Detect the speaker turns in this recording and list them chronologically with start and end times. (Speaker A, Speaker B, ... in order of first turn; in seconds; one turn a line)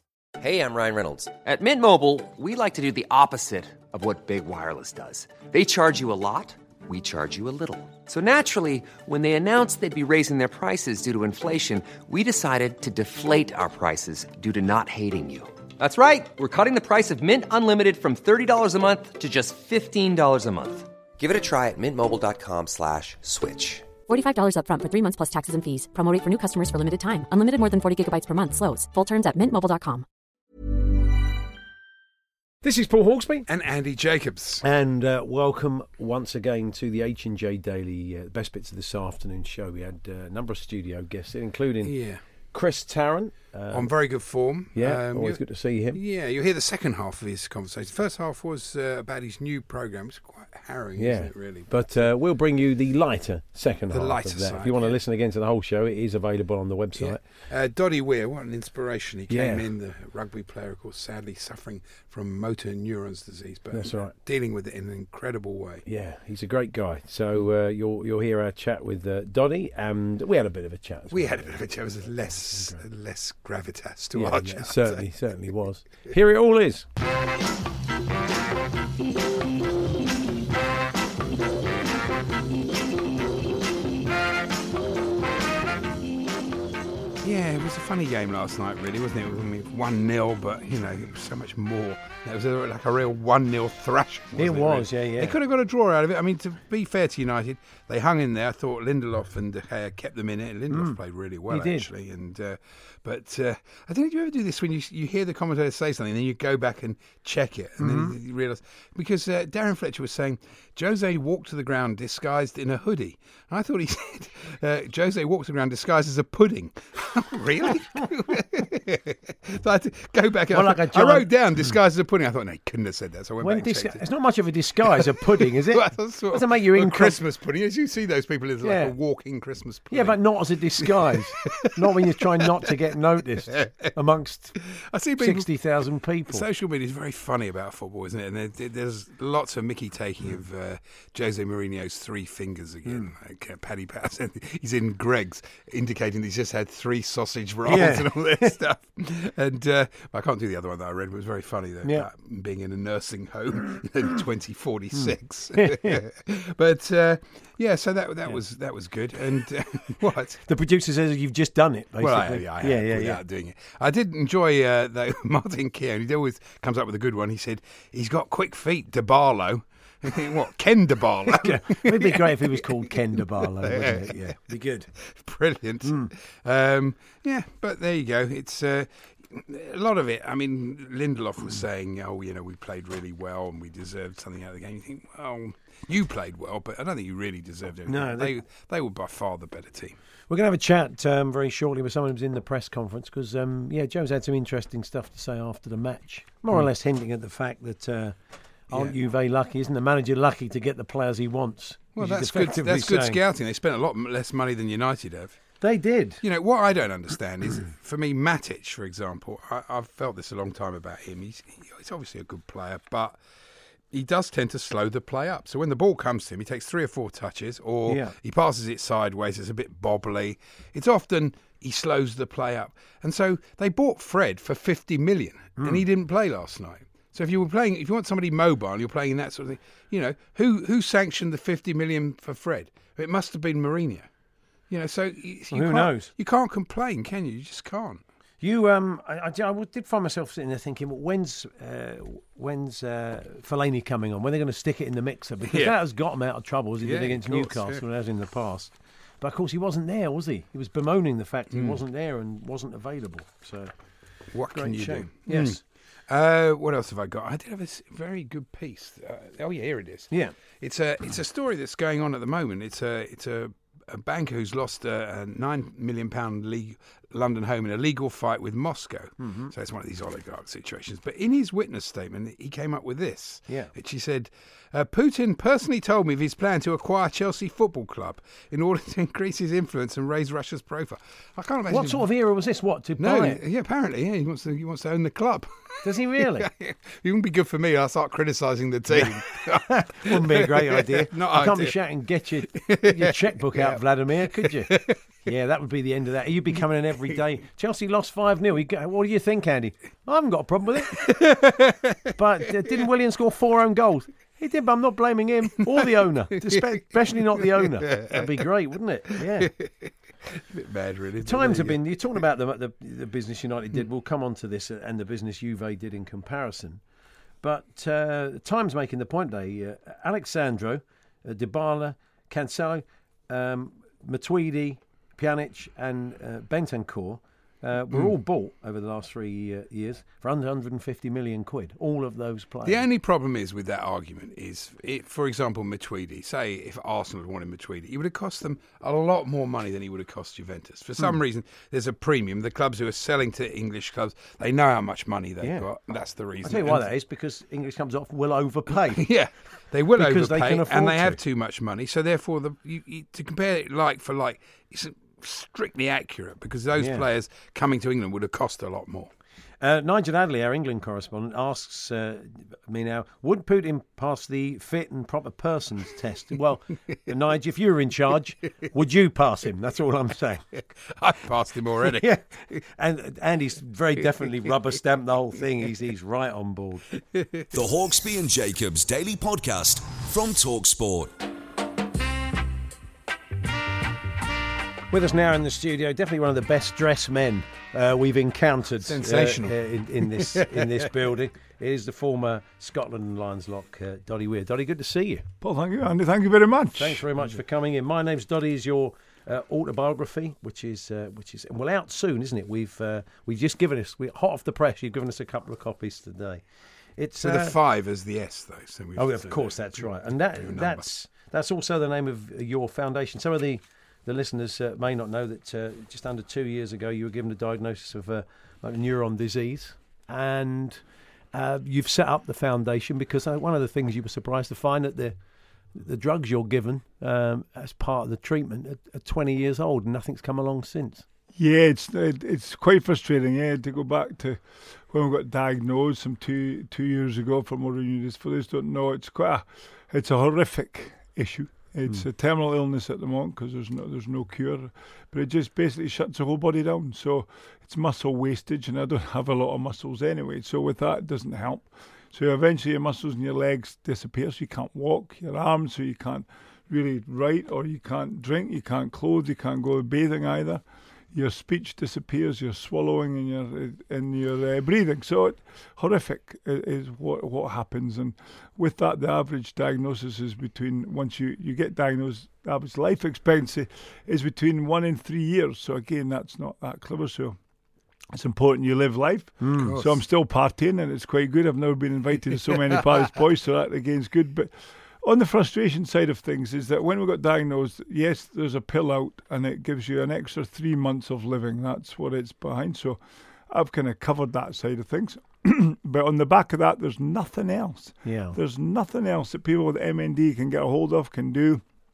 Speaker A: 0.4-23.9
Speaker B: 24.1-30.0
Speaker C: 32.6-33.5
Speaker D: 33.5-34.6
Speaker C: 34.6-42.0
Speaker D: 41.8-42.2
Speaker C: 42.5-43.9
Speaker D: 43.7-52.0
Speaker C: 44.7-46.0
Speaker C: 51.0-57.2
Speaker D: 53.9-55.0
Speaker D: 56.9-65.8
Speaker C: 59.3-59.7
Speaker C: 63.7-64.1
Speaker C: 65.8-71.6
Speaker D: 71.1-75.1
Speaker C: 72.2-72.8
Speaker C: 74.1-76.9
Speaker D: 87.2-124.0
Speaker C: 94.3-95.3
Speaker C: 100.7-101.0
Speaker C: 101.5-101.9
Speaker C: 107.8-108.2
Speaker C: 120.5-121.3
Speaker C: 123.4-127.2
Speaker D: 124.9-130.3
Speaker C: 128.6-128.9
Speaker C: 129.9-134.6
Speaker D: 133.5-133.9
Speaker D: 134.7-135.6
Speaker C: 135.2-136.4
Speaker D: 136.3-160.4
Speaker C: 142.8-143.1
Speaker C: 147.6-148.5
Speaker C: 154.9-156.0
Speaker C: 160.5-163.2
Speaker D: 162.0-174.2
Speaker C: 171.3-174.9
Speaker D: 175.0-190.0
Speaker C: 175.8-176.1
Speaker C: 187.9-188.3
Speaker C: 190.3-203.2
Speaker D: 198.7-198.9
Speaker D: 201.9-205.6
Speaker C: 205.6-206.2
Speaker D: 206.2-213.2
Speaker D: 213.9-234.1
Speaker C: 217.9-218.1
Speaker C: 225.6-225.8
Speaker D: 234.7-238.0
Speaker C: 235.5-236.1
Speaker C: 238.4-253.7
Speaker D: 245.5-245.8
Speaker D: 246.8-247.8
Speaker D: 251.5-251.8
Speaker D: 254.3-282.1
Speaker C: 254.5-255.6
Speaker C: 260.1-260.4
Speaker C: 269.2-269.5
Speaker C: 281.7-283.4
Speaker D: 283.0-291.8
Speaker C: 285.8-286.5
Speaker C: 289.7-301.2
Speaker D: 292.5-295.0
Speaker D: 300.9-302.0
Speaker C: 302.1-309.5
Speaker D: 307.4-308.3
Speaker D: 309.4-311.8
Speaker C: 311.2-316.8
Speaker C: 317.4-332.8
Speaker D: 332.6-346.9
Speaker C: 345.4-345.6
Speaker C: 346.4-349.1
Speaker D: 349.0-359.1
Speaker C: 350.0-351.2
Speaker C: 356.8-357.1
Speaker C: 359.6-370.4
Speaker D: 370.9-372.3
Speaker C: 371.9-376.8
Speaker D: 377.1-377.5
Speaker E: 377.5-381.1
Speaker C: 384.9-395.2
Speaker D: 388.9-390.8
Speaker F: 395.4-397.0
Speaker C: 396.8-406.4
Speaker C: 407.0-407.5
Speaker D: 407.2-411.0
Speaker C: 408.9-425.1
Speaker C: 425.7-431.1
Speaker F: 431.3-477.4
Speaker F: 478.1-501.6
Speaker C: 479.4-479.7
Speaker D: 479.6-480.0
Speaker C: 498.0-498.4